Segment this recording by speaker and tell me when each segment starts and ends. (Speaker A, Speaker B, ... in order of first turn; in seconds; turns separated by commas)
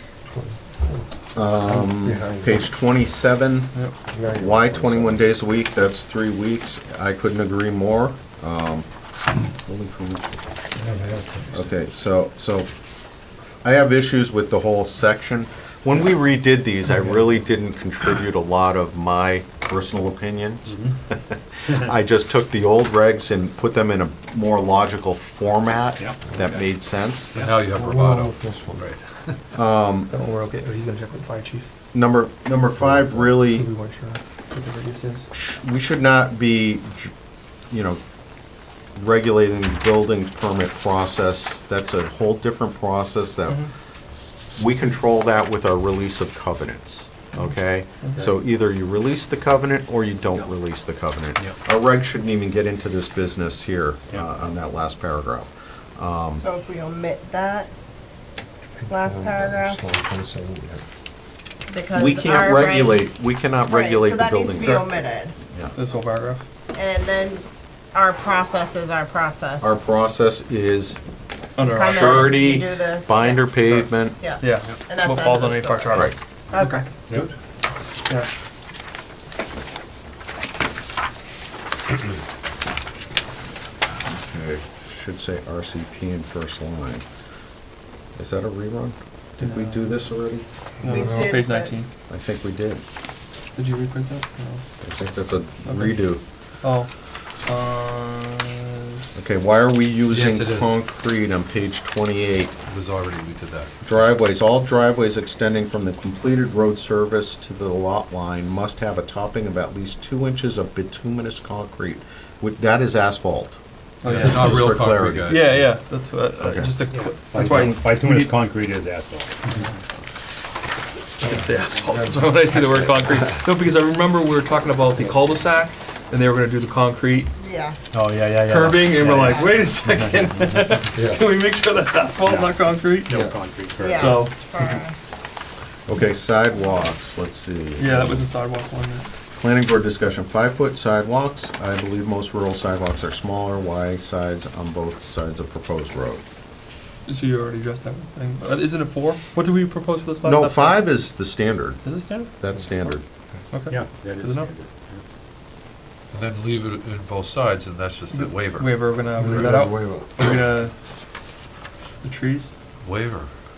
Speaker A: 0.3-1.1, Speaker B: 1.3-3.7, Speaker A: 1.6-2.7, Speaker A: 4.1-5.3, Speaker B: 4.3-8.9, Speaker B: 9.6-10.3, Speaker A: 10.8-11.6, Speaker B: 11.5-12.7, Speaker B: 13.6-27.3, Speaker C: 20.7-20.9, Speaker D: 27.3-29.4, Speaker A: 27.7-28.9, Speaker B: 29.5-30.1, Speaker E: 30.1-31.7, Speaker B: 31.9-33.7, Speaker E: 32.8-35.3, Speaker B: 35.3-37.1, Speaker B: 37.7-38.0, Speaker B: 38.9-43.6, Speaker B: 44.5-56.4, Speaker E: 48.0-48.3, Speaker F: 56.3-57.7, Speaker A: 58.8-60.8, Speaker F: 58.9-59.8, Speaker F: 61.7-65.3, Speaker B: 61.9-64.9, Speaker E: 65.7-66.4, Speaker F: 66.7-69.8, Speaker B: 69.6-71.0, Speaker E: 71.5-72.4, Speaker F: 71.6-76.9, Speaker B: 71.8-74.2, Speaker E: 74.4-76.8, Speaker B: 75.9-76.1, Speaker B: 84.1-87.0, Speaker B: 88.2-90.4, Speaker E: 89.4-90.0, Speaker A: 90.8-91.4, Speaker E: 90.8-91.9, Speaker F: 90.9-91.7, Speaker B: 92.1-92.8, Speaker E: 93.5-94.6, Speaker B: 94.8-96.2, Speaker E: 95.6-96.9, Speaker E: 97.4-99.0, Speaker B: 99.1-102.5, Speaker D: 100.1-100.8, Speaker D: 102.7-104.0, Speaker B: 103.8-115.6, Speaker E: 114.0-114.6, Speaker D: 114.0-115.6, Speaker E: 115.2-118.4, Speaker B: 116.4-116.7, Speaker C: 116.9-119.7, Speaker E: 121.2-127.3, Speaker F: 127.4-128.0, Speaker C: 127.9-130.8, Speaker E: 128.4-133.2, Speaker A: 130.9-131.2, Speaker C: 132.2-134.3, Speaker F: 133.8-134.9, Speaker E: 133.9-134.3, Speaker B: 135.9-138.2, Speaker E: 137.8-139.1, Speaker B: 139.3-146.2, Speaker E: 147.1-151.2, Speaker B: 150.2-153.0, Speaker E: 151.8-152.3, Speaker E: 153.5-154.5, Speaker C: 153.7-155.0, Speaker D: 156.1-158.7, Speaker E: 158.1-160.7, Speaker A: 159.2-160.1, Speaker E: 162.0-162.5, Speaker D: 162.8-163.3